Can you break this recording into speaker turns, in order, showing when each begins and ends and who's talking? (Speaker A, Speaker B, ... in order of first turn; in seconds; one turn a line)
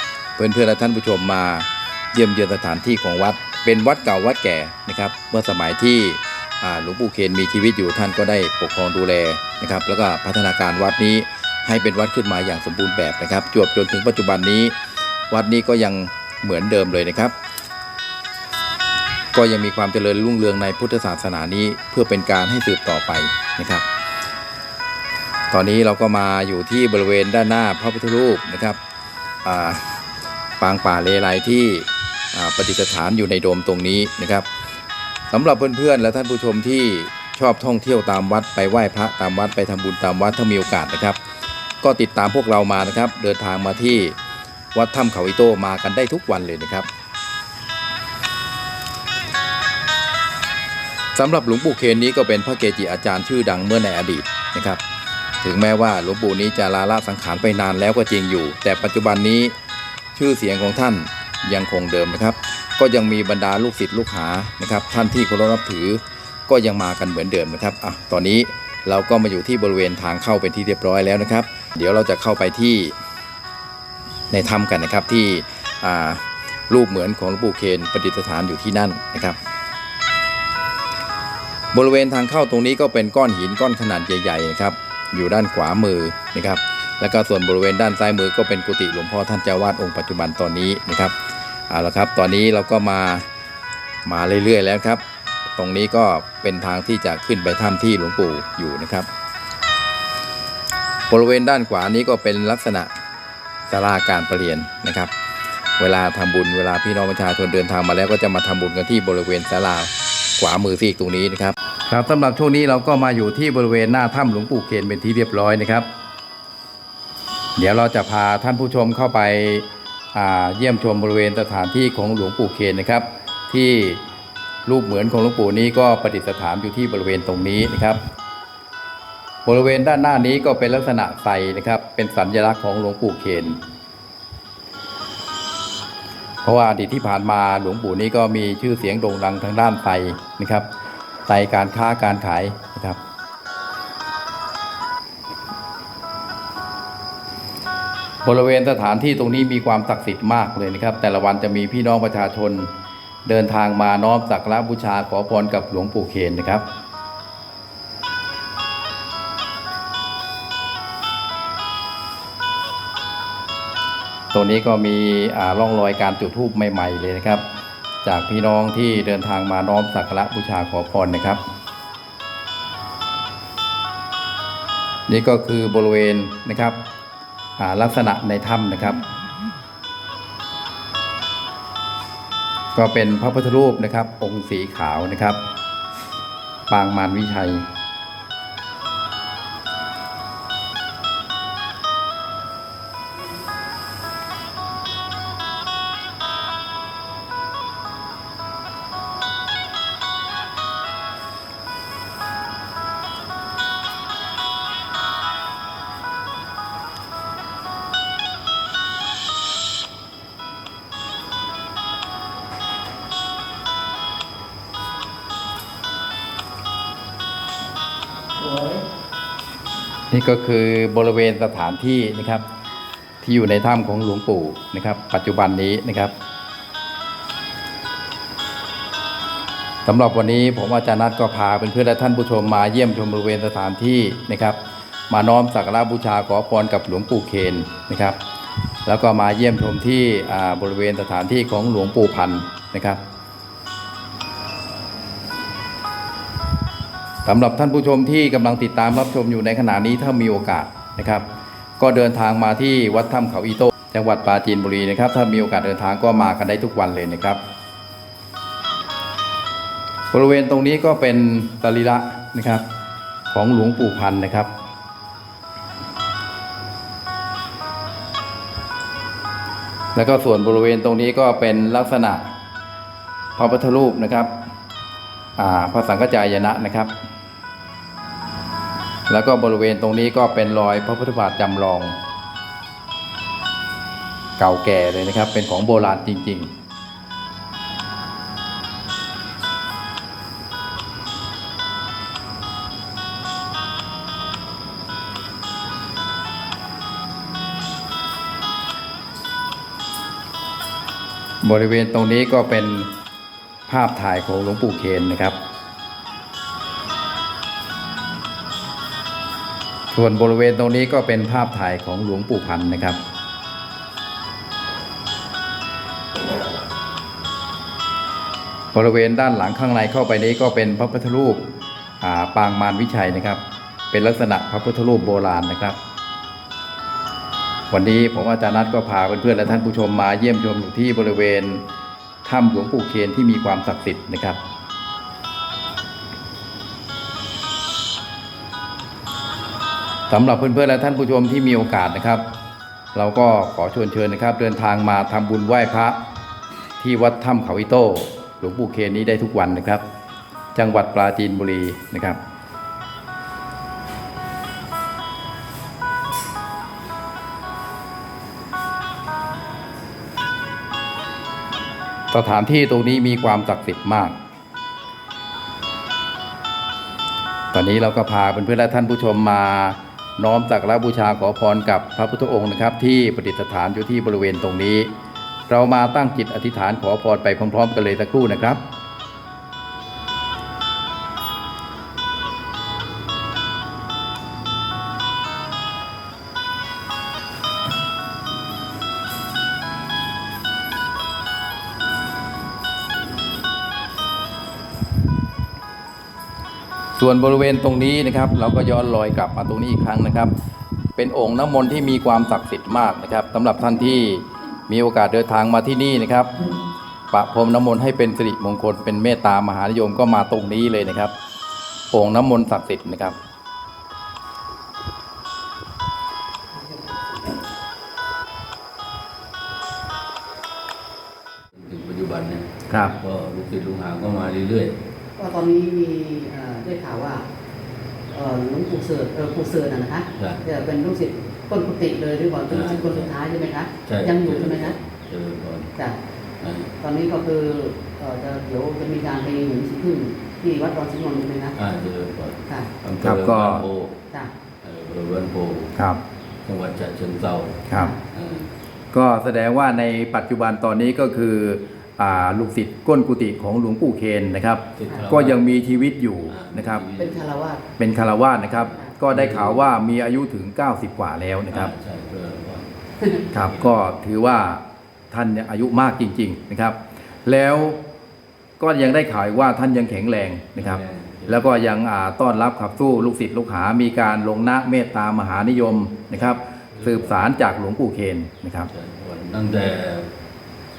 Speaker A: 0.4-14.7
Speaker A: 15.3-17.3
Speaker A: 19.3-23.8
Speaker A: 25.5-28.8
Speaker A: 29.4-30.0
Speaker A: 30.6-34.5
Speaker A: 35.3-41.2
Speaker A: 41.8-44.2
Speaker A: 44.7-46.9
Speaker A: 51.1-54.8
Speaker A: 55.4-59.5
Speaker A: 60.1-72.9
Speaker A: 74.3-79.4
Speaker A: 81.7-91.1
Speaker A: 91.7-93.3
Speaker A: 94.0-95.0
Speaker A: 95.5-99.1
Speaker A: 101.1-102.9
Speaker A: 103.7-105.1
Speaker A: 105.8-115.9
Speaker A: 117.5-124.0
Speaker A: 124.7-128.0
Speaker A: 129.4-133.6
Speaker A: 136.4-140.7
Speaker A: 141.3-143.0
Speaker A: 148.2-152.7
Speaker A: 153.2-156.6
Speaker A: 164.3-167.4
Speaker A: 168.0-171.4
Speaker A: 175.1-176.8
Speaker A: 177.6-179.0
Speaker A: 182.7-185.4
Speaker A: 186.7-187.7
Speaker B: 218.5-218.8
Speaker A: 220.1-222.4
Speaker A: 223.2-226.1
Speaker A: 229.8-234.6
Speaker A: 235.1-238.2
Speaker A: 238.8-243.0
Speaker A: 247.2-251.2
Speaker A: 251.8-257.4
Speaker A: 260.1-262.6
Speaker A: 263.3-264.5
Speaker A: 269.9-272.3
Speaker A: 273.4-274.3
Speaker A: 275.4-277.0
Speaker A: 279.1-281.9
Speaker A: 284.4-286.5
Speaker A: 301.4-302.9
Speaker A: 303.7-305.4
Speaker A: 309.9-313.0
Speaker A: 318.7-321.4
Speaker A: 322.0-323.4
Speaker A: 323.9-325.8
Speaker A: 327.7-331.6
Speaker A: 332.2-334.4
Speaker A: 340.1-342.2
Speaker A: 342.9-346.0
Speaker A: 346.8-349.8
Speaker A: 350.5-352.2
Speaker A: 362.1-364.1
Speaker A: 367.5-374.9
Speaker A: 375.5-378.6
Speaker A: 396.9-400.3
Speaker A: 401.0-406.4
Speaker A: 407.1-411.1
Speaker A: 411.9-413.2
Speaker C: 421.6-424.7
Speaker A: 422.7-422.9
Speaker B: 425.2-427.2
Speaker B: 428.1-434.7
Speaker C: 430.2-430.4
Speaker C: 432.5-433.1
Speaker C: 433.8-435.7
Speaker C: 436.4-436.7
Speaker B: 436.7-441.6
Speaker C: 441.6-444.0
Speaker A: 443.0-443.6
Speaker C: 444.6-445.7
Speaker A: 445.7-446.0
Speaker C: 446.4-448.5
Speaker B: 447.7-448.0
Speaker A: 448.9-456.8
Speaker C: 454.8-455.4
Speaker C: 456.3-457.2
Speaker B: 457.0-457.6
Speaker A: 457.8-461.7
Speaker C: 458.7-459.6
Speaker C: 461.5-462.7
Speaker C: 463.3-463.9
Speaker A: 463.3-467.8
Speaker A: 468.6-478.7
Speaker C: 470.6-471.5
Speaker C: 476.1-477.2
Speaker C: 478.7-480.1